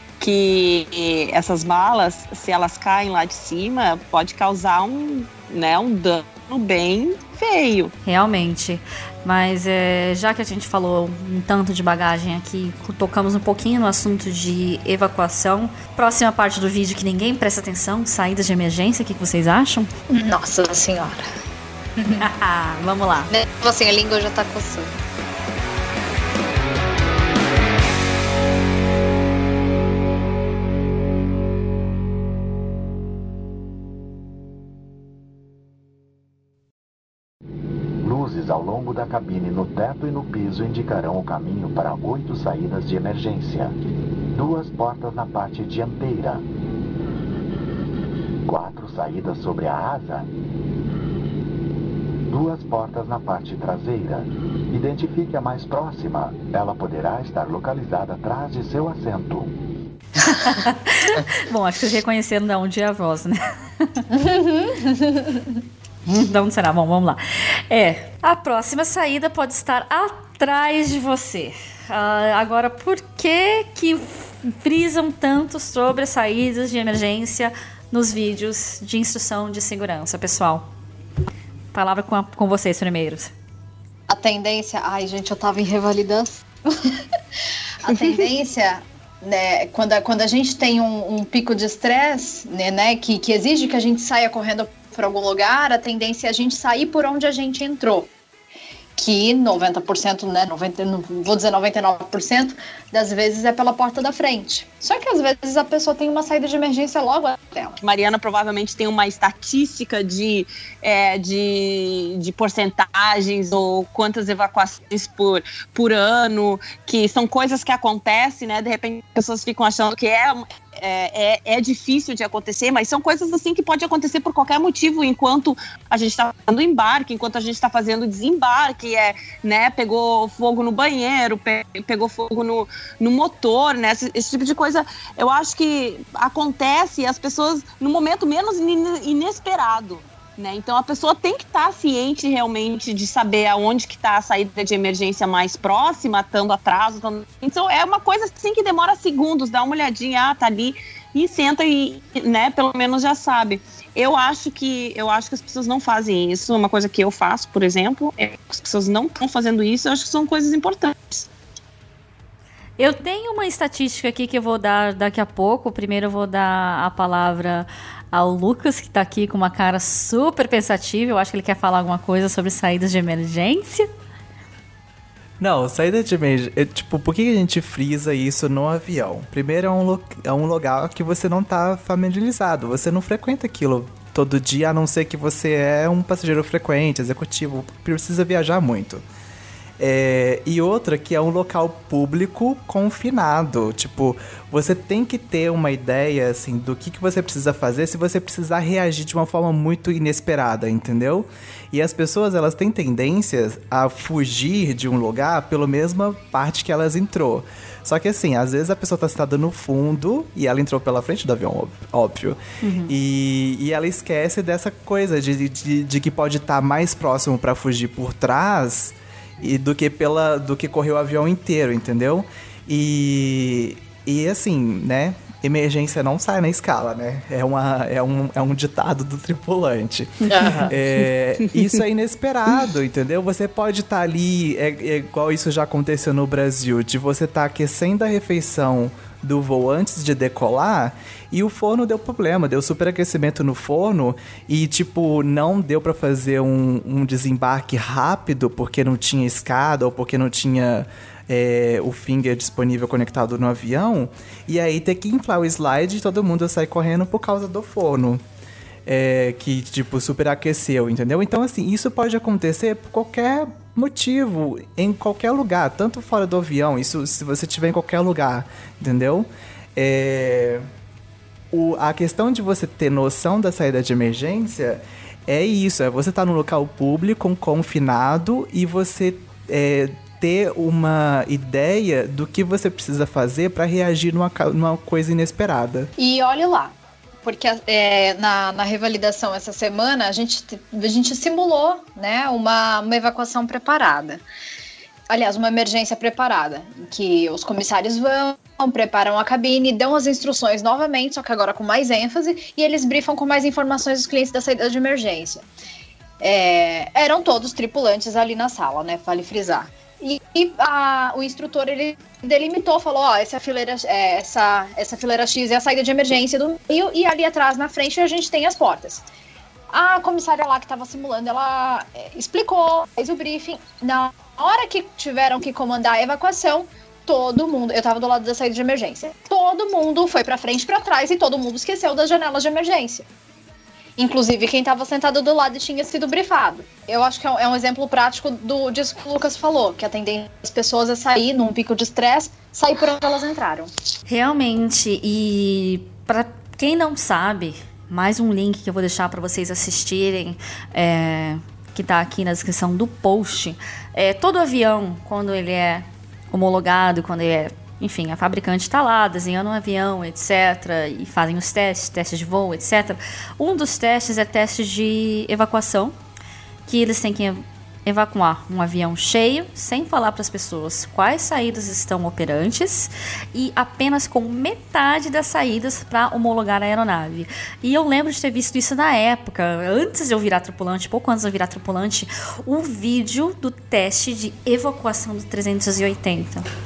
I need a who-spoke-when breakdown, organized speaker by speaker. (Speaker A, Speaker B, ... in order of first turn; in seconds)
Speaker A: 0.2-7.9, 107.8-161.3
Speaker B: 8.1-19.9, 22.1-23.3, 60.2-63.4, 66.1-80.7, 81.7-83.3, 162.8-173.9, 212.6-212.9, 344.1-366.0, 366.7-386.5
Speaker C: 20.1-21.3, 23.3-24.9, 64.1-65.6, 84.1-87.0, 87.8-98.1, 99.0-107.8, 230.3-230.7, 286.0-294.2, 295.1-305.4, 306.2-319.1, 319.7-333.1, 334.0-343.7
Speaker D: 38.0-43.8, 44.3-46.5, 48.5-50.3, 52.3-59.6
Speaker E: 175.4-189.0, 189.8-258.2, 258.9-270.7, 271.5-285.9